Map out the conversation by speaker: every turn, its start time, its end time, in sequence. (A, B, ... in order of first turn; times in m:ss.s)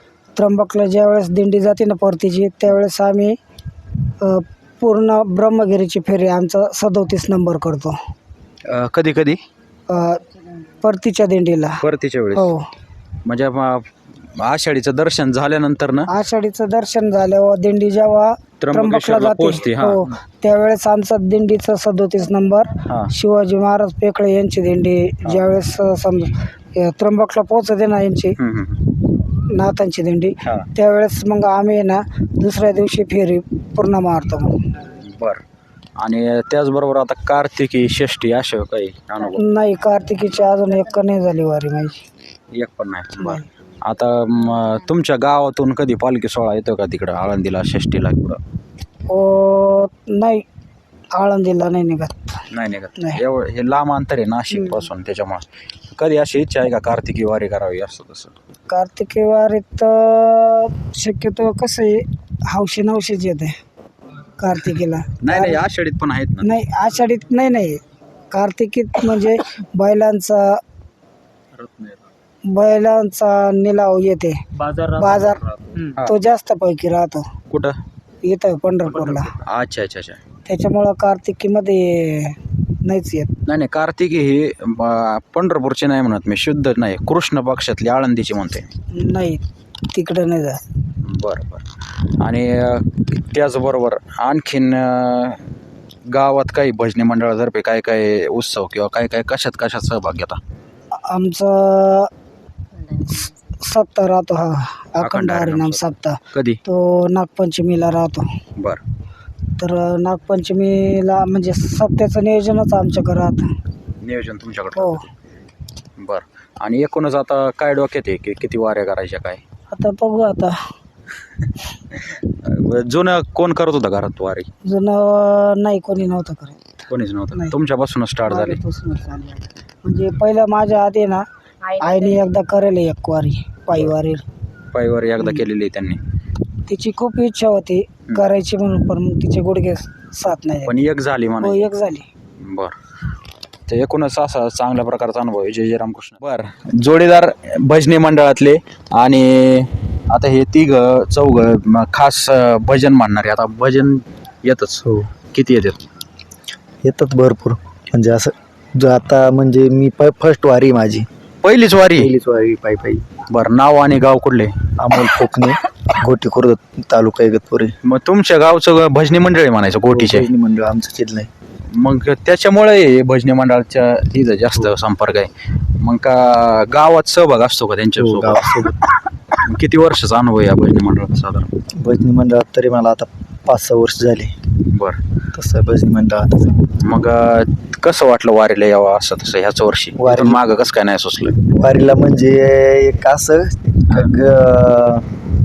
0:00.4-0:03.4 A
0:04.2-0:07.9 A
0:08.6-0:09.4 B
0:09.9-0:10.2 A
0:10.8-0:12.6 A
0:11.8-0:12.4 B
0:13.2-0:16.1 B
0:16.1-0:28.4 A
0:18.6-0:20.0 B
0:28.4-0:28.8 B
0:29.3-0:34.5 A
0:35.0-0:35.4 B
0:36.0-0:39.4 B
0:39.3-0:42.0 A
0:42.5-0:43.3 B
0:43.2-0:43.4 A
0:43.8-0:48.4 B
0:49.1-0:50.4 A
0:51.1-0:52.4 A
0:52.5-0:58.3 B
0:53.0-0:53.2 A
0:54.5-0:54.9 A
0:58.7-1:03.5 A
1:04.4-1:05.6 A
1:05.3-1:06.5 B
1:06.4-1:10.6 A
1:12.5-1:14.4 A
1:14.6-1:16.2 B
1:15.0-1:15.4 A
1:16.0-1:17.2 A
1:17.5-1:17.8 B
1:18.2-1:19.3 A
1:19.0-1:20.2 B
1:20.5-1:23.4 A
1:23.5-1:28.7 B
1:28.9-1:30.6 A
1:31.0-1:31.6 B
1:32.2-1:35.4 B
1:36.1-1:40.4 B
1:41.1-1:42.1 A
1:42.9-1:48.3 A
1:48.6-1:48.8 B
1:49.6-1:53.5 A
1:54.0-1:54.9 B
1:54.7-1:55.1 A
1:56.0-1:59.4 B
1:59.7-2:00.5 A
2:01.9-2:04.5 B
2:04.6-2:06.6 A
2:06.9-2:08.2 B
2:08.2-2:14.2 A
2:14.8-2:16.0 B
2:16.7-2:20.8 A
2:20.7-2:21.3 B
2:21.4-2:22.1 A
2:22.4-2:22.8 B
2:23.7-2:34.8 B
2:34.8-2:35.1 C
2:35.3-2:35.9 B
2:36.8-2:41.0 C
2:41.4-2:42.1 B
2:42.0-2:43.0 C
2:43.3-2:44.6 B
2:44.8-2:47.8 C
2:47.9-2:50.2 B
2:49.9-2:51.3 C
2:52.0-2:55.3 B
2:56.0-2:58.4 B
2:58.0-2:58.9 C
2:59.4-3:01.2 B
3:01.8-3:04.3 C
3:04.7-3:05.0 B
3:05.3-3:06.7 C
3:06.8-3:11.3 B
3:10.0-3:10.6 C
3:11.5-3:15.1 C